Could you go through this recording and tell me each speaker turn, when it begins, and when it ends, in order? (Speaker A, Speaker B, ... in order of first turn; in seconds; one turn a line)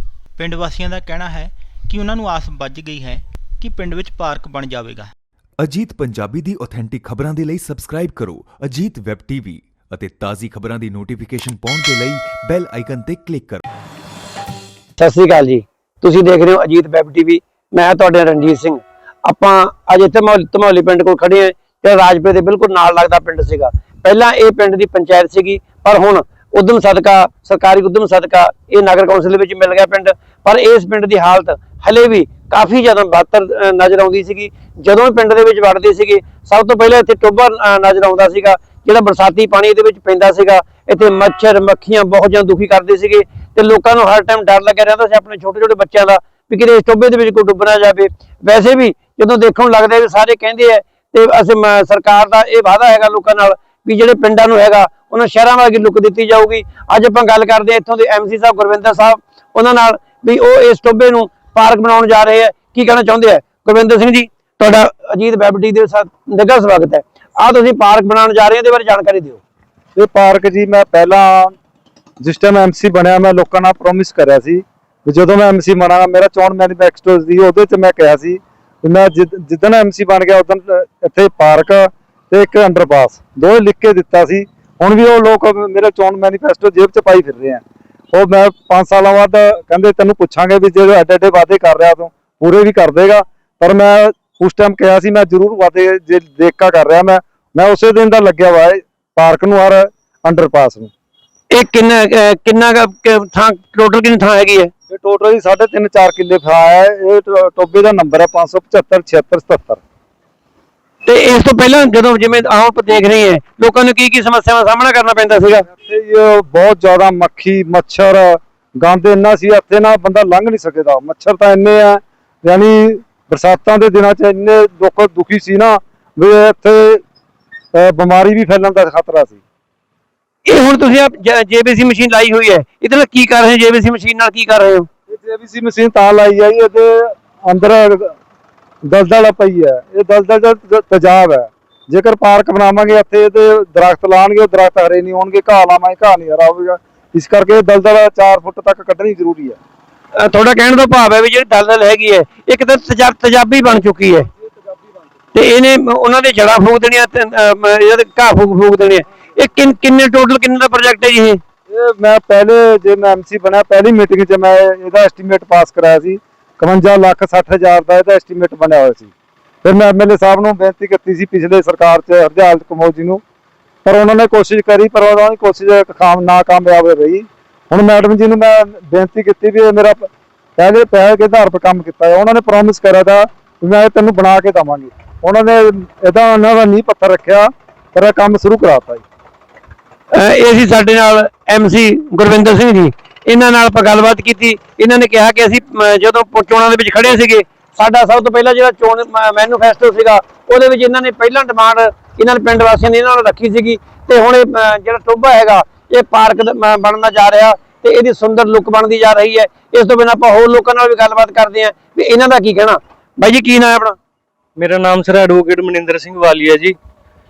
Speaker A: 0.3-5.1
Speaker B: 5.6-13.6
Speaker C: 15.0-69.4
Speaker D: 70.0-71.5
Speaker D: 72.2-100.9
Speaker C: 101.5-104.7
Speaker D: 104.9-109.8
Speaker C: 111.0-115.7
Speaker D: 115.7-127.0
Speaker D: 127.7-129.4
Speaker C: 130.4-134.9
Speaker D: 135.1-138.1
Speaker D: 138.8-149.6
Speaker C: 150.2-154.3
Speaker C: 155.3-161.4
Speaker D: 161.7-169.1
Speaker D: 169.6-173.2
Speaker D: 173.8-189.0
Speaker C: 190.1-214.0
Speaker E: 214.6-216.8